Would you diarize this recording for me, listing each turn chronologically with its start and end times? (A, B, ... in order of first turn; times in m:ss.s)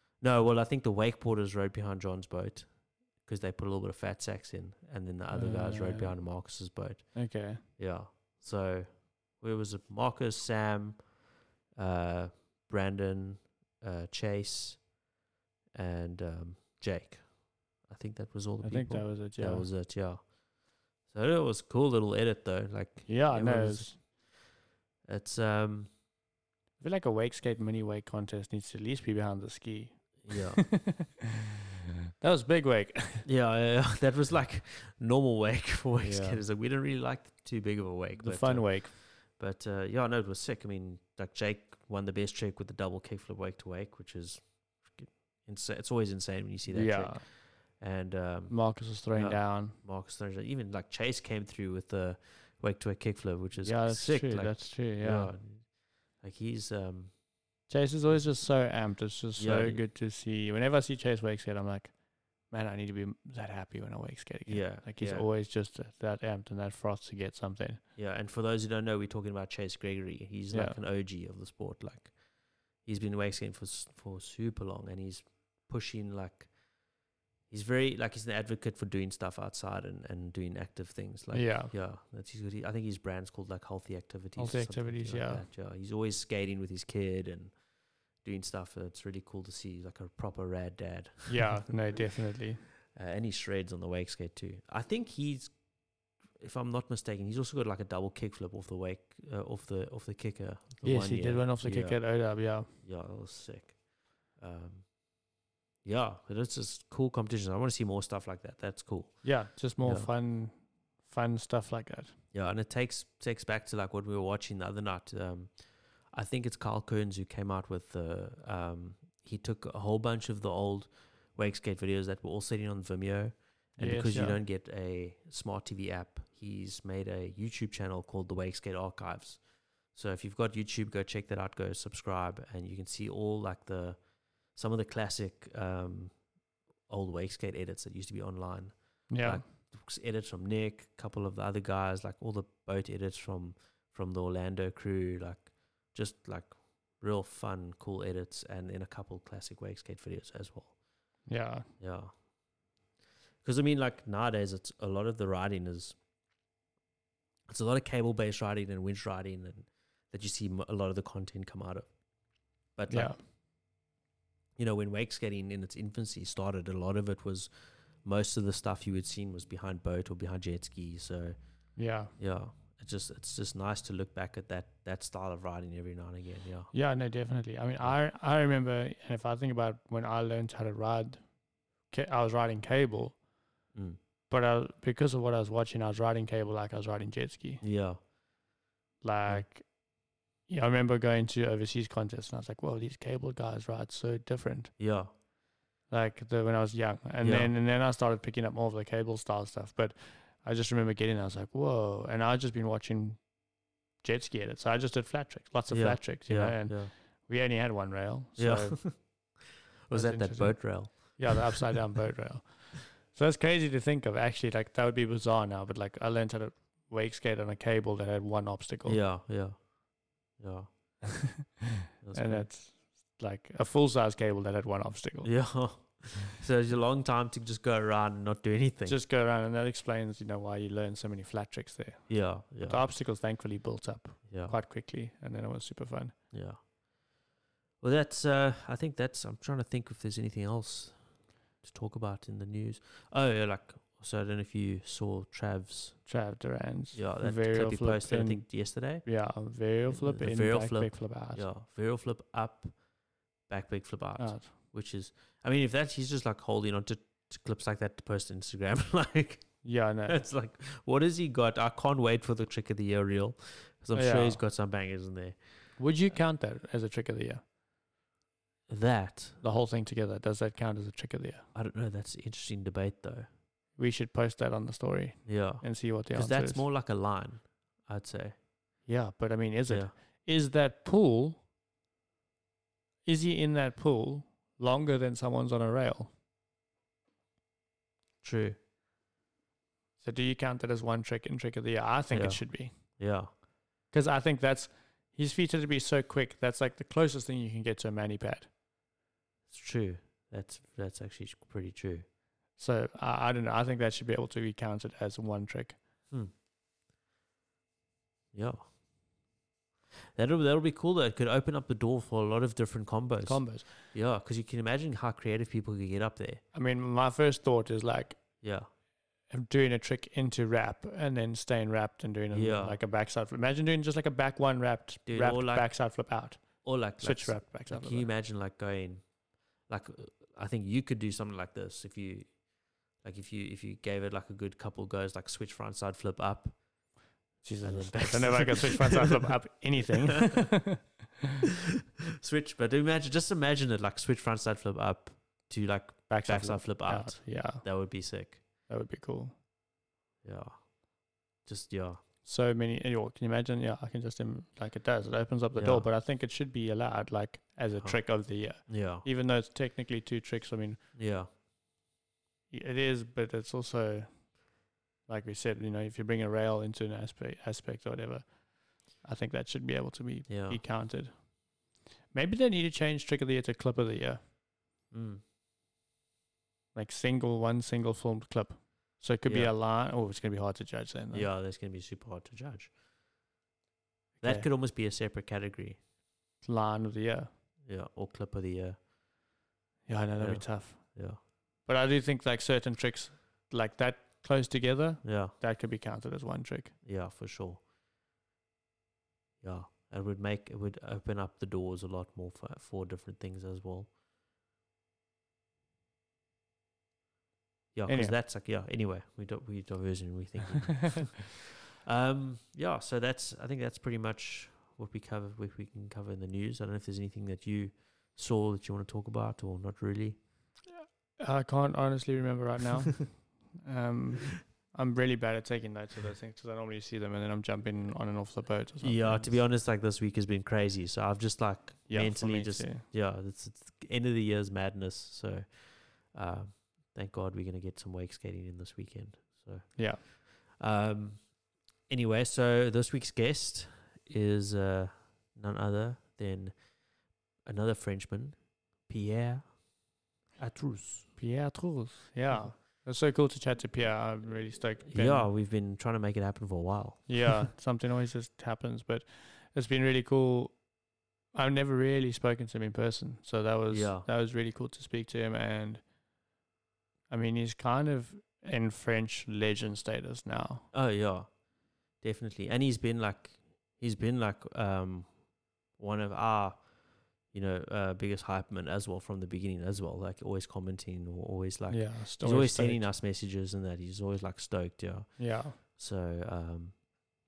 0:00.2-0:11.2 A
0:05.3-0:06.6 B
0:07.1-0:07.6 B
0:11.7-0:14.9 A
0:15.7-0:20.4 A
0:18.6-0:19.7 B
0:21.0-0:24.3 A
0:23.1-0:24.0 B
0:25.0-0:26.0 A
0:26.8-0:31.1 B
0:30.2-0:30.8 A
0:32.2-0:33.2 B
0:33.2-0:57.2 A
0:36.0-0:36.4 B
0:38.2-0:38.9 B
0:46.7-0:47.2 B
0:48.5-0:49.8 B
0:53.6-0:55.3 B
0:57.7-1:07.8 B
0:59.4-0:59.8 A
1:04.4-1:05.3 A
1:07.9-1:16.6 A
1:10.5-1:10.8 B
1:17.5-1:27.6 A
1:21.3-1:21.7 B
1:24.4-1:25.4 B
1:28.2-1:31.6 A
1:31.3-1:32.6 B
1:32.9-1:45.1 A
1:40.8-1:42.7 B
1:45.8-1:50.1 A
1:49.2-1:52.2 B
1:52.3-2:16.2 A
2:03.8-2:04.4 B
2:16.9-2:30.8 A
2:19.1-2:19.4 B
2:31.2-2:31.7 B
2:31.8-2:32.2 A
2:33.4-2:36.0 A
2:37.5-2:42.0 A
2:42.6-2:43.2 A
2:42.9-2:43.2 B
2:44.6-2:56.7 A
2:51.8-2:52.1 B
2:56.7-3:01.3 B
3:01.9-3:03.2 B
3:03.7-3:04.0 A
3:04.3-3:07.6 B
3:07.6-3:08.0 A
3:09.0-3:09.9 B
3:10.5-3:14.8 B
3:14.8-3:15.1 A
3:15.9-3:23.4 B
3:17.2-3:17.5 A
3:24.0-3:29.4 B
3:25.7-3:26.9 A
3:28.4-3:31.5 A
3:29.9-3:39.0 B
3:38.8-3:41.1 A
3:42.0-3:42.5 A
3:42.1-3:45.6 B
3:45.2-3:49.0 A
3:48.8-3:56.2 B
3:52.1-3:52.9 A
3:54.3-3:54.6 A
3:56.3-3:56.6 A
3:57.8-4:06.1 A
4:06.0-4:11.5 B
4:06.9-4:09.1 A
4:09.9-4:12.9 A
4:13.4-4:25.6 A
4:14.2-4:14.5 B
4:19.6-4:20.2 B
4:23.9-4:24.4 B
4:25.8-4:27.4 B
4:28.7-4:29.4 A
4:29.4-4:31.5 B
4:31.5-4:33.3 A
4:33.8-4:36.6 B
4:35.2-4:38.4 A
4:38.8-4:41.4 B
4:39.7-4:39.9 A
4:43.0-4:46.1 B
4:48.2-4:48.6 A
4:50.0-4:53.0 B
4:52.1-4:53.3 A
4:53.9-4:58.5 B
4:59.5-5:02.0 A
5:02.6-5:05.8 B
5:08.3-5:08.8 A
5:10.1-5:16.4 A
5:13.2-5:13.7 B
5:16.5-5:18.4 B
5:18.4-5:18.7 A
5:19.2-5:28.1 B
5:22.3-5:22.8 A
5:25.0-5:26.0 A
5:26.6-5:36.9 A
5:37.4-5:40.8 B
5:37.6-5:39.4 A
5:40.1-5:40.5 A
5:42.2-5:48.4 A
5:46.1-5:48.1 B
5:48.7-5:49.3 B
5:50.2-5:52.0 A
5:52.2-6:00.8 B
5:55.6-5:55.9 A
5:57.8-5:59.0 A
6:00.9-6:01.3 A
6:02.5-6:04.5 B
6:05.0-6:11.3 B
6:10.3-6:10.6 A
6:12.1-6:14.2 B
6:14.9-6:15.2 A
6:16.7-6:21.3 B
6:19.2-6:19.5 A
6:21.1-6:22.8 A
6:24.2-6:24.5 B
6:24.2-6:25.8 A
6:26.4-6:27.3 B
6:27.6-6:28.9 A
6:29.8-6:36.7 B
6:30.2-6:31.2 A
6:35.0-6:35.3 A
6:36.8-6:37.6 A
6:39.4-6:43.9 A
6:47.7-7:00.2 A
6:47.9-6:48.2 B
7:00.7-7:09.4 B
7:08.8-7:31.1 A
7:11.9-7:12.8 B
7:19.8-7:20.0 B
7:31.2-7:35.3 B
7:34.9-7:37.4 A
7:37.1-7:40.7 B
7:41.3-7:45.8 B
7:43.7-7:44.1 A
7:47.1-7:50.7 B
7:50.7-8:07.0 A
8:01.7-8:02.9 B
8:05.2-8:05.6 B